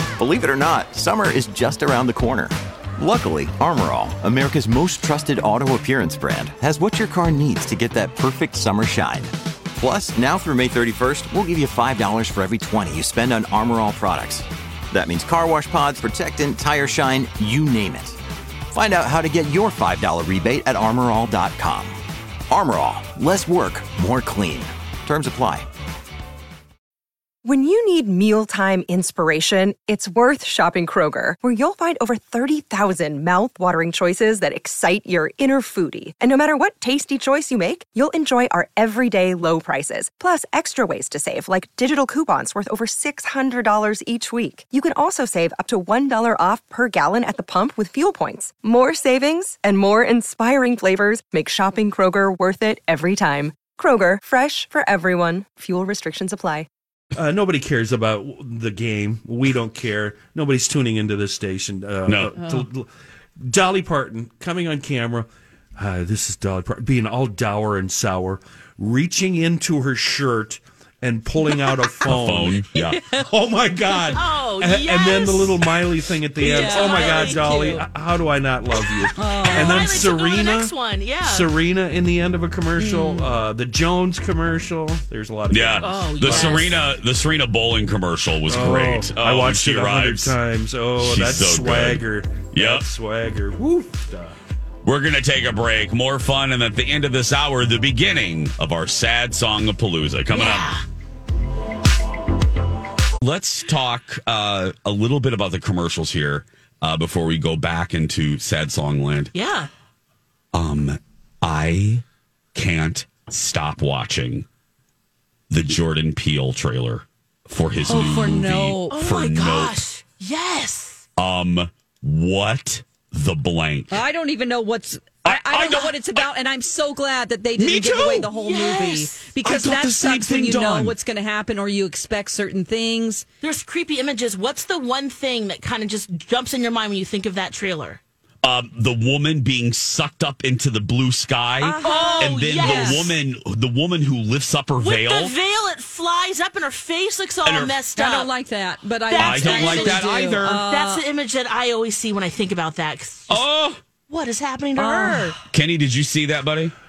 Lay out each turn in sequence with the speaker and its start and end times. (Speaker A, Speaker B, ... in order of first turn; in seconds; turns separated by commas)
Speaker A: 0.2-18.2, Speaker A: 18.7-22.0, Speaker A: 22.5-25.7, Speaker B: 27.4-56.7, Speaker C: 57.1-62.9, Speaker D: 62.4-62.7, Speaker C: 63.4-86.8, Speaker E: 72.1-73.0, Speaker D: 72.8-73.2, Speaker F: 74.1-75.6, Speaker F: 76.4-77.5, Speaker D: 76.4-77.9, Speaker F: 78.9-81.5, Speaker D: 79.2-80.0, Speaker D: 82.8-83.3, Speaker E: 85.5-90.3, Speaker F: 85.8-86.8, Speaker C: 88.5-94.4, Speaker E: 91.0-92.9, Speaker E: 94.8-100.7, Speaker F: 100.3-100.8, Speaker E: 103.2-109.3, Speaker F: 109.3-109.7, Speaker E: 110.5-112.0, Speaker E: 112.5-114.5, Speaker E: 115.5-119.8, Speaker D: 117.9-119.0, Speaker F: 118.9-121.0, Speaker E: 121.2-124.0, Speaker D: 123.9-133.2, Speaker E: 125.2-126.0, Speaker E: 127.6-128.3, Speaker F: 128.2-129.3, Speaker E: 129.4-130.9, Speaker F: 133.4-138.0, Speaker E: 138.4-145.3, Speaker D: 141.6-143.1, Speaker F: 141.8-143.2, Speaker F: 144.8-148.3, Speaker E: 147.4-147.8, Speaker D: 147.9-151.0, Speaker F: 149.1-153.4, Speaker E: 149.2-150.6, Speaker E: 153.3-153.8, Speaker F: 154.1-155.4, Speaker D: 154.8-155.4, Speaker E: 155.5-156.7